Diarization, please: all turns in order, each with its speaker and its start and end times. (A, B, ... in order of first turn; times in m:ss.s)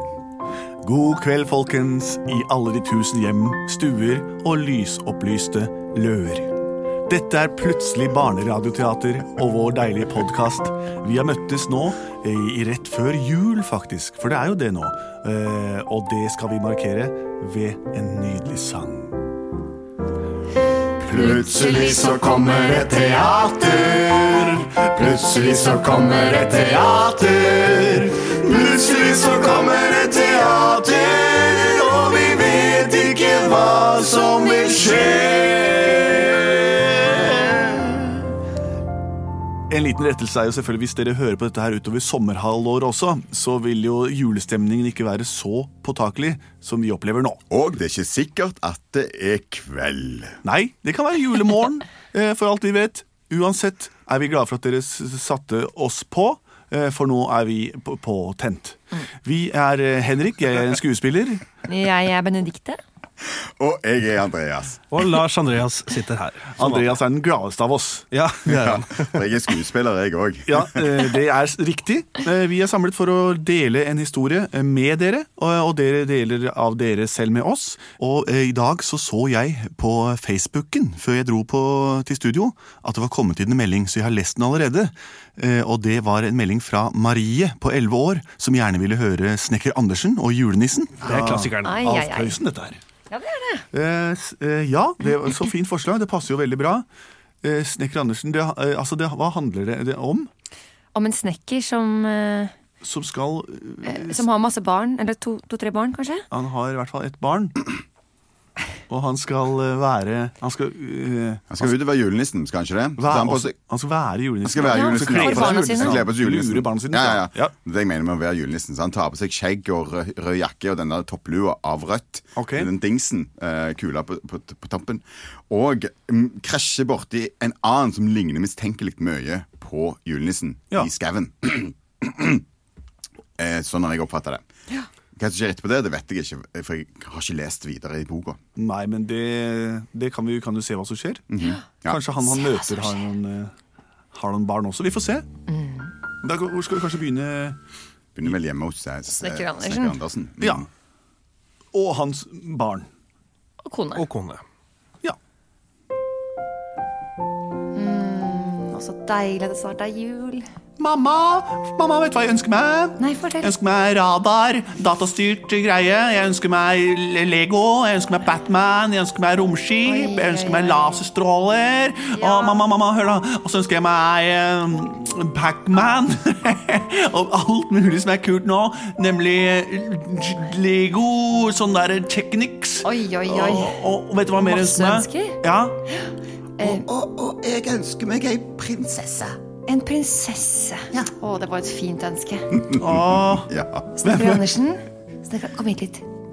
0:00.8-0:06.5 A
0:07.1-0:19.2 A
0:21.0-0:38.2 B
0:21.1-0:23.4 C
0:25.0-0:26.8 C
0:34.6-0:35.0 C
0:35.4-0:35.8 A
0:39.7-0:47.4 A
0:47.5-0:50.4 B
0:50.4-1:01.4 A
1:01.7-1:02.8 C
1:03.2-1:04.9 B
1:04.9-1:06.9 D
1:06.5-1:08.8 A
1:08.1-1:09.1 D
1:08.5-1:11.1 B
1:10.5-1:32.8 A
1:31.0-1:32.2 D
1:31.6-1:32.4 C
1:33.1-1:33.6 C
1:33.7-1:36.8 A
1:37.4-1:40.3 A
1:40.9-1:42.5 C
1:42.8-1:44.2 A
1:43.8-1:46.2 C
1:46.3-1:47.8 A
1:48.9-1:51.7 A
1:51.5-1:53.6 B
1:53.0-1:57.5 A
1:54.4-2:12.4 B
1:54.6-1:56.0 C
2:02.4-2:02.7 A
2:13.4-2:14.4 B
2:15.2-2:18.4 B
2:18.6-2:21.2 A
2:21.3-2:22.0 B
2:21.8-2:23.5 A
2:22.2-2:23.1 C
2:24.1-2:25.2 A
2:25.5-2:25.9 C
2:26.2-2:27.6 A
2:28.1-2:30.7 B
2:29.2-2:30.0 C
2:30.4-2:30.6 A
2:31.7-2:32.9 A
2:33.6-2:34.0 C
2:33.9-2:34.4 D
2:37.7-2:40.4 C
2:40.8-3:05.7 A
2:43.0-2:43.5 C
2:49.8-2:50.9 C
2:52.1-2:52.6 C
3:02.8-3:03.8 C
3:04.4-3:05.4 C
3:06.0-3:06.8 C
3:06.6-3:09.4 B
3:09.7-3:12.5 C
3:12.5-3:13.9 B
3:12.7-3:13.5 A
3:14.0-3:16.0 C
3:14.0-3:14.4 A